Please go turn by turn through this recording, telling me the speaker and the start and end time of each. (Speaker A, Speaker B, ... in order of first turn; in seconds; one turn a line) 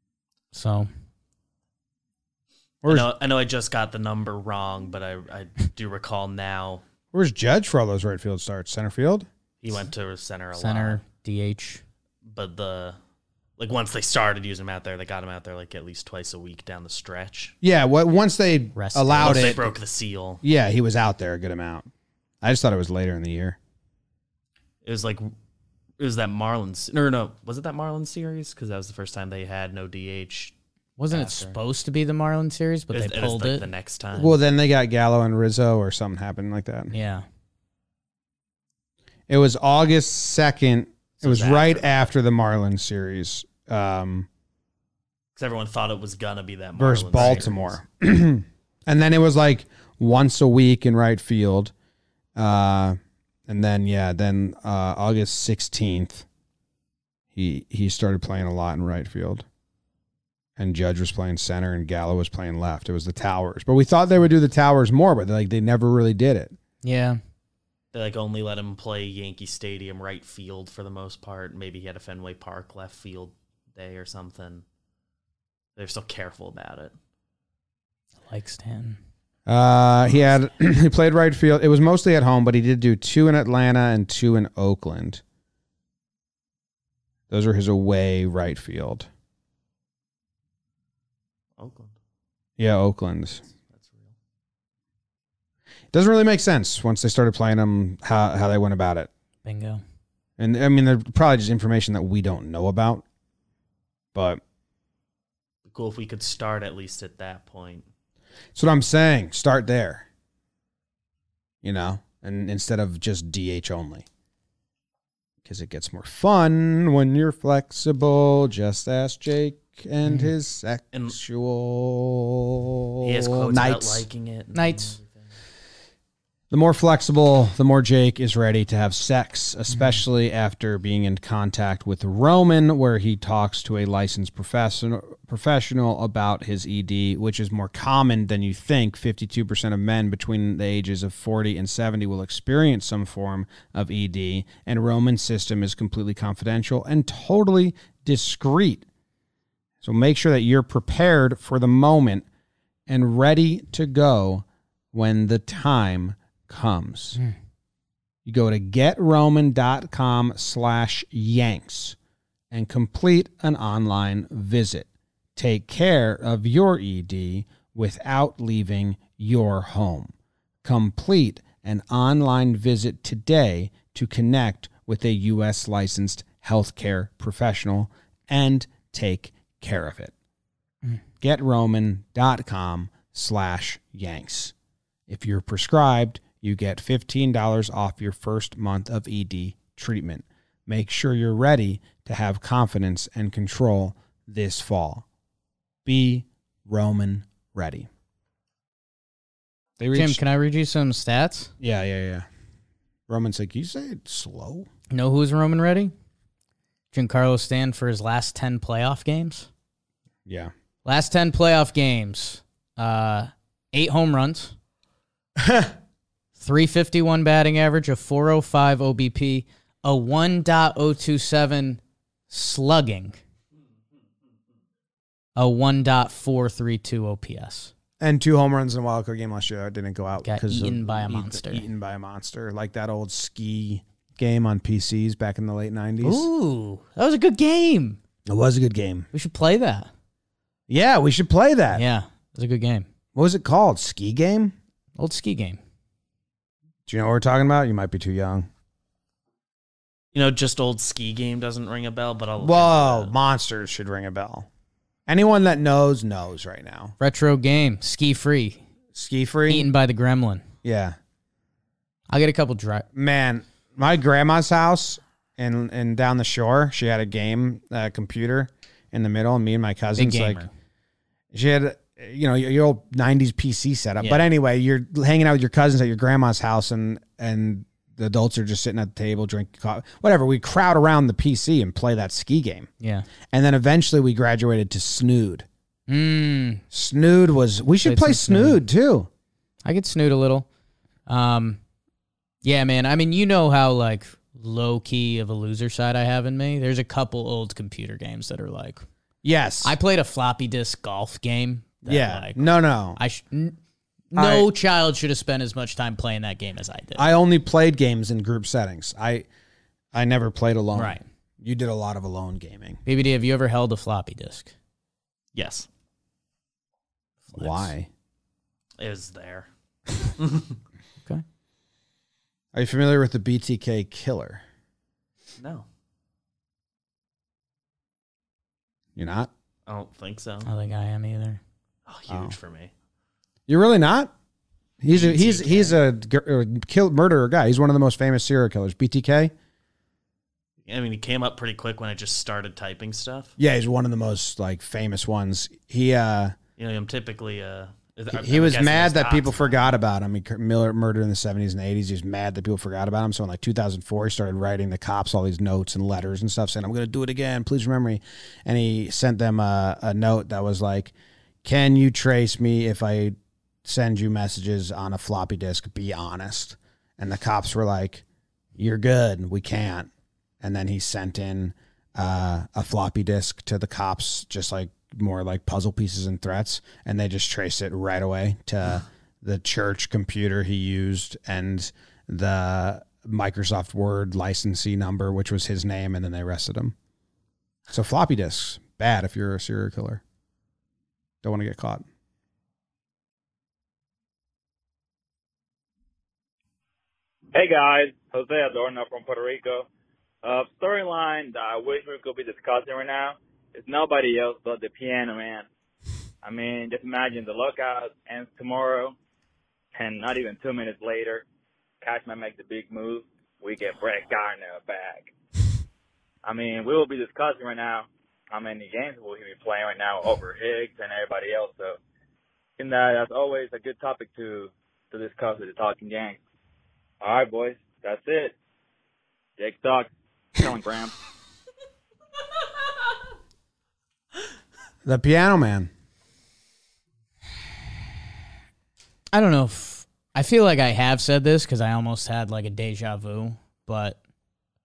Speaker A: 0.5-0.9
Speaker B: 2.8-3.1
Speaker C: 2.8-6.8
Speaker B: 7.1-9.3
Speaker C: 9.6-11.0
Speaker A: 10.6-11.8
Speaker C: 12.2-13.0
Speaker C: 13.6-17.5
Speaker B: 17.6-19.7
Speaker A: 18.8-19.6
Speaker C: 19.2-20.4
Speaker B: 20.4-21.9
Speaker B: 22.4-23.6
Speaker C: 24.8-25.3
Speaker C: 26.0-30.5
Speaker A: 31.0-33.6
Speaker C: 31.1-31.6
Speaker C: 32.9-34.4
Speaker B: 34.1-36.9
Speaker A: 36.9-37.2
Speaker B: 39.3-44.3
Speaker C: 41.2-42.0
Speaker C: 45.4-47.8
Speaker B: 46.8-51.7
Speaker B: 52.4-56.2
Speaker B: 57.3-59.5
Speaker B: 60.6-66.5
Speaker A: 66.8-67.2
Speaker C: 67.9-74.6
Speaker C: 75.8-76.9
Speaker A: 78.3-79.0
Speaker B: 79.5-85.2
Speaker B: 87.3-89.1
Speaker C: 91.6-91.9
Speaker B: 92.6-93.4
Speaker C: 93.7-94.1
Speaker B: 95.9-99.1
Speaker A: 99.4-99.8
Speaker B: 100.4-103.0
Speaker B: 104.1-104.4
Speaker C: 105.6-107.9
Speaker B: 108.5-110.1
Speaker B: 111.6-114.0
Speaker B: 115.4-124.0
Speaker A: 120.0-120.3
Speaker C: 123.0-125.3
Speaker A: 124.5-125.0
Speaker B: 126.5-148.8
Speaker A: 129.7-130.0
Speaker B: 149.8-152.2
Speaker B: 152.9-157.2
Speaker B: 158.2-161.9
Speaker B: 162.5-170.1
Speaker B: 170.6-180.1
Speaker B: 181.2-184.5
Speaker B: 185.1-195.0
Speaker B: 195.8-197.9
Speaker B: 199.8-200.2
Speaker A: 199.9-201.5
Speaker B: 201.6-202.3
Speaker B: 203.1-204.7
Speaker A: 204.9-205.9
Speaker A: 206.9-209.5
Speaker B: 210.2-210.5
Speaker A: 210.8-214.5
Speaker B: 215.4-215.7
Speaker A: 216.4-223.2
Speaker A: 225.3-227.7
Speaker B: 228.0-236.3
Speaker A: 230.2-231.6
Speaker A: 236.0-238.0
Speaker B: 238.2-239.1
Speaker A: 239.1-239.9
Speaker B: 240.7-241.8
Speaker A: 241.7-242.9
Speaker B: 243.1-244.6
Speaker A: 245.0-245.6
Speaker B: 246.9-248.5
Speaker C: 250.1-253.1
Speaker B: 252.4-254.5
Speaker B: 255.1-256.9
Speaker A: 257.0-258.6
Speaker B: 258.9-259.7
Speaker A: 259.5-260.4
Speaker B: 260.6-261.0
Speaker A: 262.1-262.9
Speaker B: 262.9-270.4
Speaker A: 270.0-270.5
Speaker B: 271.3-282.7
Speaker A: 282.8-283.1
Speaker B: 283.3-285.5
Speaker A: 285.9-286.6
Speaker B: 286.7-289.1
Speaker A: 287.8-288.6
Speaker A: 289.6-290.5
Speaker A: 291.1-291.6
Speaker A: 292.4-298.9
Speaker B: 299.2-299.7
Speaker A: 299.6-303.6
Speaker B: 301.8-303.0
Speaker A: 304.1-307.1
Speaker B: 304.1-304.5
Speaker B: 307.0-309.2
Speaker B: 309.9-312.8
Speaker A: 310.7-311.0
Speaker A: 312.9-314.5
Speaker C: 315.3-315.7
Speaker A: 317.2-317.7
Speaker B: 317.3-317.9
Speaker C: 318.8-319.5
Speaker C: 320.1-320.6
Speaker B: 322.5-324.4
Speaker C: 325.4-325.6
Speaker B: 328.9-329.3
Speaker C: 329.7-330.5
Speaker A: 330.4-331.4
Speaker C: 331.9-332.7
Speaker B: 332.1-332.3
Speaker B: 333.5-334.1
Speaker B: 334.8-339.3
Speaker C: 334.9-335.7
Speaker C: 340.6-343.3
Speaker B: 343.4-346.3
Speaker C: 346.6-349.7
Speaker B: 348.1-368.0
Speaker B: 368.6-369.9
Speaker B: 370.4-386.7
Speaker B: 387.7-390.0
Speaker B: 391.2-391.8
Speaker D: 397.3-399.7
Speaker D: 400.2-405.4
Speaker D: 406.2-408.9
Speaker D: 409.7-411.2
Speaker D: 411.8-415.1
Speaker D: 416.2-421.8
Speaker D: 422.6-426.2
Speaker D: 427.0-428.3
Speaker D: 429.4-430.9
Speaker B: 434.8-435.7
Speaker A: 439.1-444.0